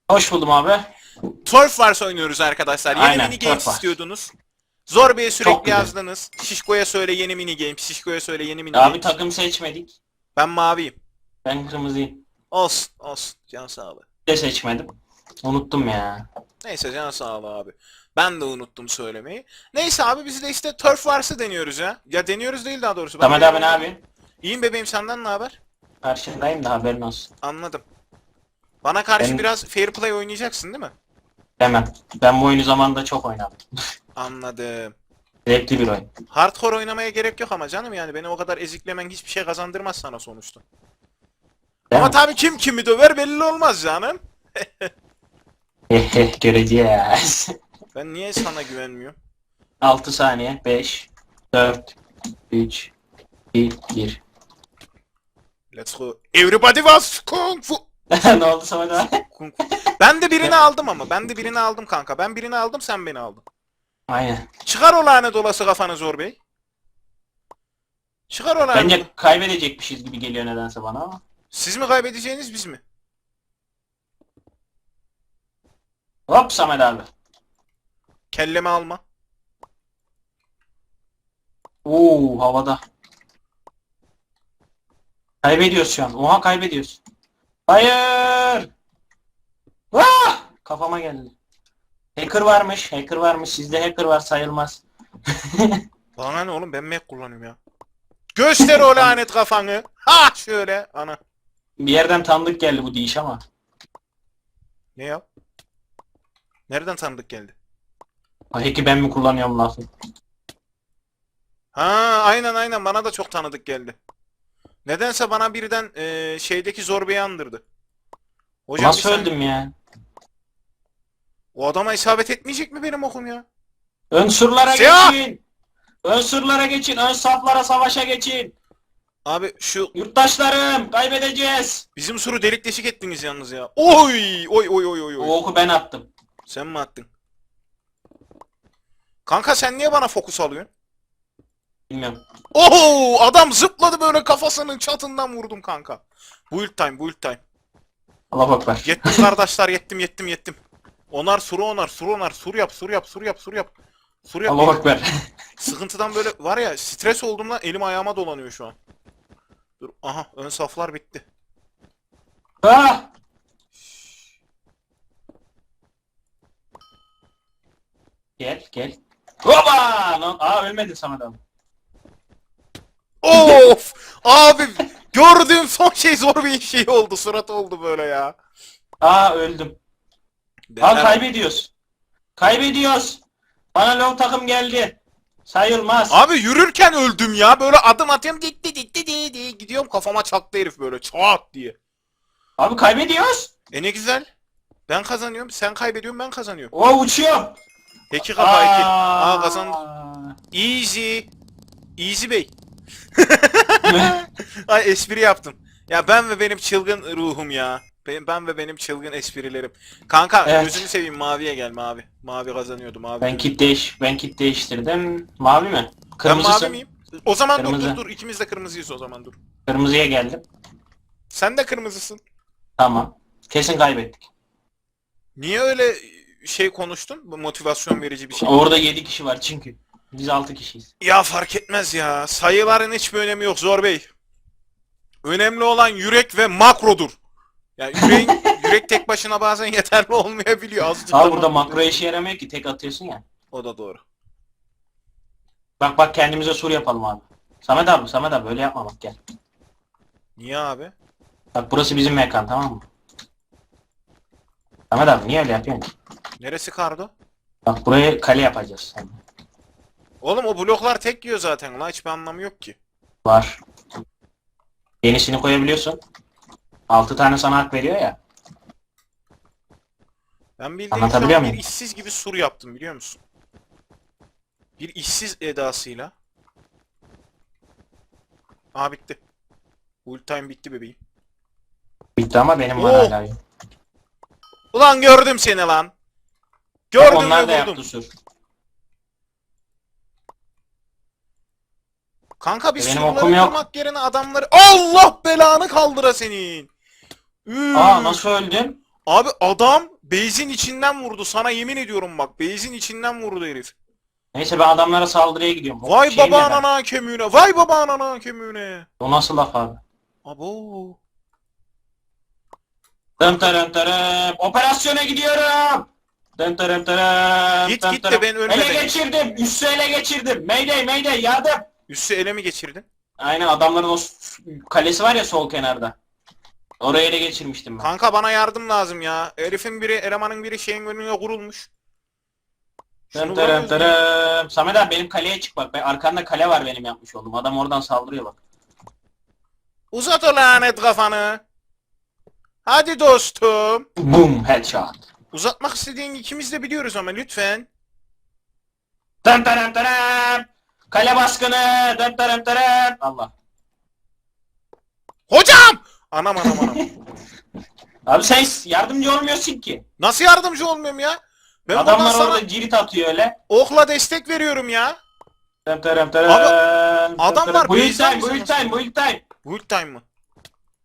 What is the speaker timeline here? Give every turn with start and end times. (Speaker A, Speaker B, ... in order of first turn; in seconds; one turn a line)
Speaker A: 0.1-0.9
Speaker B: 1.4-4.3
Speaker A: 2.9-3.9
Speaker B: 4.9-9.1
Speaker A: 5.4-5.9
Speaker A: 8.7-9.9
Speaker B: 10.3-10.9
Speaker A: 11.4-12.2
Speaker B: 12.5-14.0
Speaker A: 14.2-14.9
Speaker A: 15.4-16.3
Speaker B: 16.6-23.8
Speaker A: 23.2-24.0
Speaker B: 24.4-25.6
Speaker A: 26.0-27.3
Speaker B: 27.4-27.8
Speaker B: 28.8-30.9
Speaker A: 31.6-33.6
Speaker B: 34.1-34.9
Speaker A: 35.5-36.1
Speaker B: 36.3-40.6
Speaker B: 41.9-44.9
Speaker A: 45.9-47.5
Speaker B: 47.9-49.1
Speaker A: 49.8-51.9
Speaker A: 52.5-52.9
Speaker A: 53.5-54.2
Speaker B: 55.7-57.8
Speaker A: 58.1-59.2
Speaker B: 59.2-63.4
Speaker A: 60.4-60.7
Speaker A: 64.1-64.5
Speaker B: 64.7-66.4
Speaker B: 68.3-69.1
Speaker A: 68.7-71.2
Speaker B: 71.5-72.8
Speaker A: 76.3-77.1
Speaker B: 78.3-79.0
Speaker A: 81.8-82.8
Speaker A: 85.4-87.0
Speaker A: 87.7-88.7
Speaker A: 89.9-91.3
Speaker A: 92.2-95.8
Speaker B: 96.2-97.6
Speaker B: 98.3-101.2
Speaker A: 98.7-99.1
Speaker A: 101.8-103.4
Speaker B: 105.0-105.2
Speaker B: 106.7-107.5
Speaker A: 108.5-109.9
Speaker B: 111.7-114.0
Speaker B: 114.8-117.6
Speaker B: 118.7-119.3
Speaker A: 118.8-119.7
Speaker B: 121.5-123.4
Speaker A: 124.1-125.4
Speaker B: 124.7-125.2
Speaker A: 126.0-128.5
Speaker B: 129.2-129.9
Speaker A: 129.9-131.8
Speaker B: 131.9-135.3
Speaker A: 135.2-136.1
Speaker B: 136.5-137.1
Speaker B: 139.2-140.7
Speaker A: 141.9-142.2
Speaker B: 142.5-147.4
Speaker A: 148.3-149.2
Speaker B: 148.8-150.6
Speaker B: 151.1-153.7
Speaker B: 154.3-154.8
Speaker A: 154.5-155.1
Speaker B: 155.6-158.8
Speaker B: 159.8-161.2
Speaker A: 162.6-163.1
Speaker A: 168.4-171.4
Speaker B: 173.2-178.3
Speaker A: 173.3-173.7
Speaker A: 179.0-179.8
Speaker B: 180.7-181.2
Speaker A: 180.8-181.7
Speaker A: 182.4-183.2
Speaker A: 183.7-186.2
Speaker B: 186.1-191.7
Speaker A: 192.6-193.5
Speaker B: 193.7-194.3
Speaker B: 194.9-196.7
Speaker A: 196.7-197.6
Speaker B: 198.1-199.8
Speaker A: 198.3-200.3
Speaker B: 200.5-201.3
Speaker B: 202.0-202.5
Speaker B: 203.2-213.5
Speaker A: 203.8-204.2
Speaker A: 210.4-210.8
Speaker A: 213.2-216.8
Speaker B: 216.2-219.4
Speaker A: 217.6-218.0
Speaker A: 219.7-220.4
Speaker B: 221.3-222.2
Speaker A: 222.8-224.2
Speaker B: 225.4-228.5
Speaker A: 228.4-230.9
Speaker B: 231.0-234.1
Speaker B: 235.2-237.2
Speaker B: 237.8-241.9
Speaker A: 238.0-238.8
Speaker A: 241.1-243.2
Speaker B: 243.5-244.0
Speaker A: 245.8-249.2
Speaker B: 250.4-250.9
Speaker A: 251.5-252.8
Speaker A: 254.9-255.9
Speaker B: 256.4-257.1
Speaker A: 257.6-259.2
Speaker B: 260.2-262.8
Speaker A: 263.2-263.6
Speaker A: 265.0-266.0
Speaker A: 266.9-268.2
Speaker B: 270.6-273.2
Speaker A: 270.9-271.6
Speaker B: 274.8-276.1
Speaker B: 278.7-279.2
Speaker B: 280.0-281.0
Speaker A: 282.2-283.4
Speaker B: 282.8-283.1
Speaker B: 284.7-285.9
Speaker B: 286.9-287.8
Speaker A: 286.9-288.1
Speaker B: 292.4-296.7
Speaker A: 292.8-293.6
Speaker B: 297.4-298.2
Speaker A: 297.7-298.8
Speaker B: 299.1-303.7
Speaker A: 304.3-306.6
Speaker B: 305.8-308.9
Speaker A: 309.0-309.8
Speaker B: 310.2-311.0
Speaker A: 313.2-321.7
Speaker B: 317.6-319.0
Speaker B: 321.9-322.8
Speaker A: 323.2-325.9
Speaker A: 326.8-327.9
Speaker B: 327.8-331.7
Speaker B: 333.1-334.0
Speaker A: 333.1-338.4
Speaker B: 339.9-341.4
Speaker B: 342.6-343.9
Speaker A: 344.0-345.0
Speaker B: 345.3-347.7
Speaker A: 349.2-353.3
Speaker B: 355.3-356.8
Speaker A: 356.4-356.9
Speaker A: 358.1-359.8
Speaker B: 360.0-362.4
Speaker A: 361.7-363.3
Speaker B: 363.5-365.0
Speaker A: 365.6-369.2
Speaker B: 366.2-366.5
Speaker B: 367.2-368.8
Speaker B: 369.4-370.0